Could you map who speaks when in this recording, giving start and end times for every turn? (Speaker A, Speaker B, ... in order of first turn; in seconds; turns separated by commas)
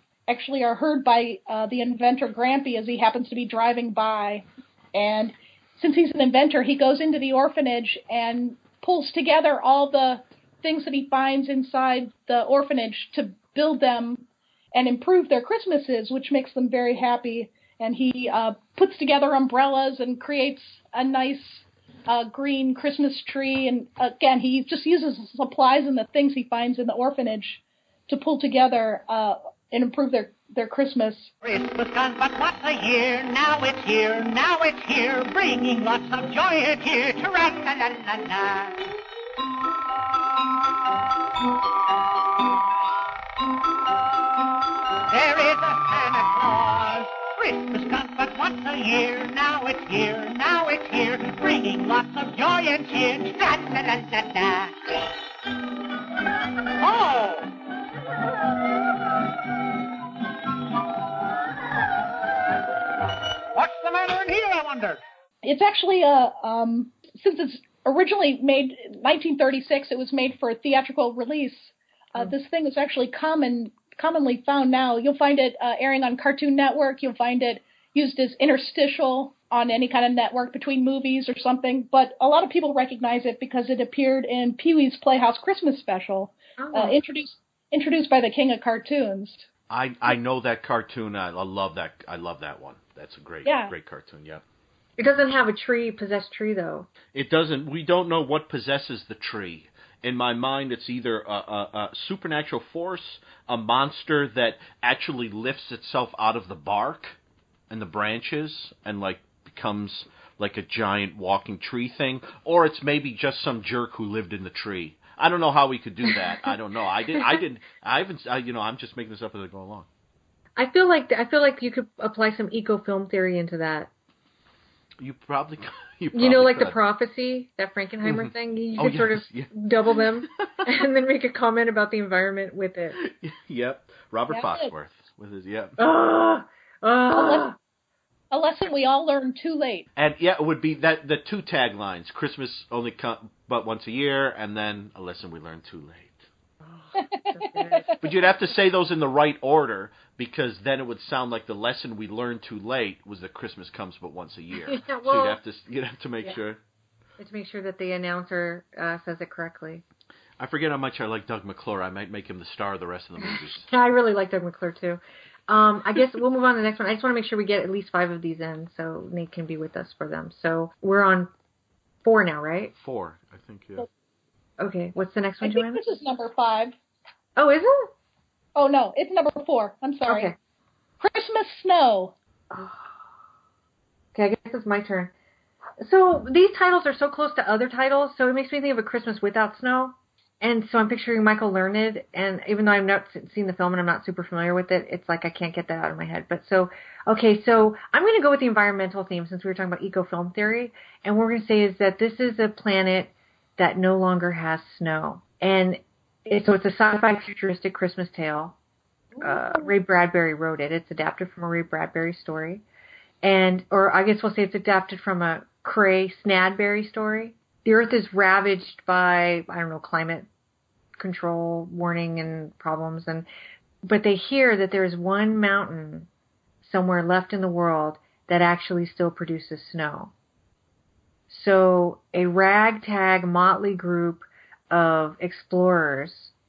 Speaker A: 0.3-31.3, Speaker B: 31.4-38.8, Speaker B: 45.1-54.9, Speaker B: 56.8-57.5, Speaker B: 63.5-65.0, Speaker A: 65.4-89.5, Speaker C: 86.6-87.0, Speaker D: 89.7-94.4, Speaker A: 93.4-93.7, Speaker C: 95.0-96.9, Speaker D: 97.1-107.2, Speaker D: 107.7-119.9, Speaker C: 120.5-123.9, Speaker D: 125.0-126.8, Speaker C: 126.1-133.0, Speaker D: 128.0-130.4, Speaker D: 133.0-135.8, Speaker A: 134.3-134.7, Speaker C: 135.8-137.6, Speaker A: 137.1-137.4, Speaker A: 138.3-139.9, Speaker D: 140.0-146.2, Speaker C: 146.6-147.9, Speaker A: 146.9-148.0, Speaker D: 148.0-156.6, Speaker C: 154.6-155.4, Speaker C: 157.2-159.8, Speaker D: 160.4-163.7, Speaker C: 163.2-171.3, Speaker C: 172.0-172.7, Speaker D: 172.8-173.9, Speaker C: 174.6-175.8, Speaker A: 175.4-176.7, Speaker C: 177.3-177.9, Speaker A: 178.6-180.3, Speaker C: 180.1-180.3, Speaker A: 181.0-182.1, Speaker C: 182.5-182.9, Speaker C: 184.1-185.1, Speaker C: 185.8-208.6, Speaker C: 209.2-212.6, Speaker C: 213.2-220.3, Speaker C: 221.0-223.3, Speaker C: 223.8-226.1, Speaker C: 226.6-230.1, Speaker C: 231.3-236.3